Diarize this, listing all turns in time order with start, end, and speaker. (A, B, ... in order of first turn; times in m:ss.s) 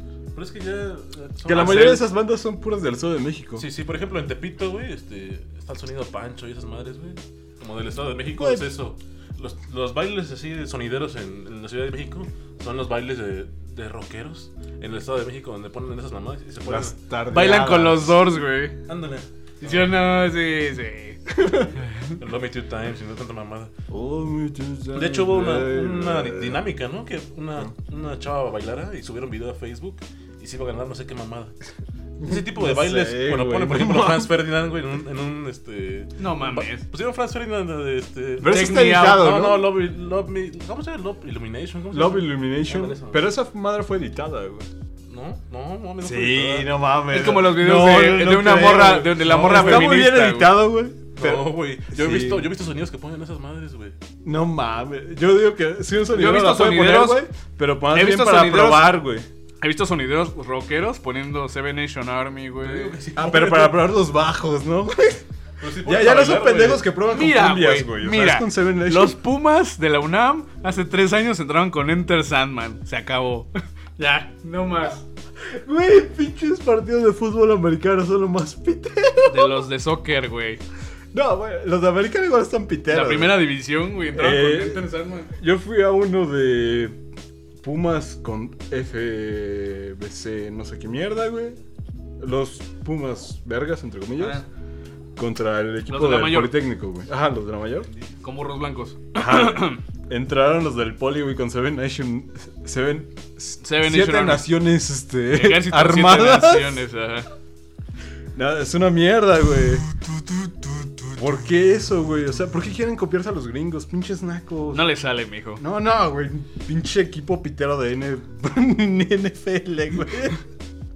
0:00.3-0:02.1 A
0:01.4-0:03.6 B
0:01.5-0:02.0 C
0:03.6-0:17.0 A
0:16.6-0:18.4 B
0:17.3-0:18.8 C
0:18.9-0:19.9 A
0:19.6-0:21.2 C
0:21.3-0:21.7 B
0:22.2-0:23.7 A
0:23.9-0:26.6 B
0:24.9-0:31.5 A
0:32.2-0:43.3 A
0:32.2-0:34.3 B
0:36.2-0:36.8 C
0:38.4-0:39.8 B
0:38.4-0:39.2 C
0:41.9-0:44.7 B
0:45.1-0:46.8 A
0:46.0-0:52.5 B
0:47.1-0:50.6 C
0:49.2-0:50.0 A
0:51.1-0:54.0 A
0:54.2-0:59.3 B
0:56.1-0:57.2 C
0:57.9-0:59.0 C
0:59.6-1:02.9 C
1:02.6-1:03.9 A
1:03.2-1:05.2 B
1:05.6-1:06.9 A
1:05.8-1:09.2 B
1:07.1-1:15.0 C
1:15.4-1:19.6 B
1:19.2-1:20.6 C
1:21.1-1:23.5 B
1:22.9-1:25.3 C
1:24.1-1:27.0 B
1:27.6-1:31.6 B
1:32.2-1:34.4 B
1:34.2-1:34.4 C
1:35.2-1:37.9 B
1:35.9-1:36.6 C
1:38.2-1:39.8 C
1:39.1-1:46.8 B
1:43.6-1:44.5 C
1:45.3-1:47.3 C
1:48.3-1:49.9 B
1:51.2-1:54.8 B
1:54.7-1:55.6 C
1:55.6-2:00.4 B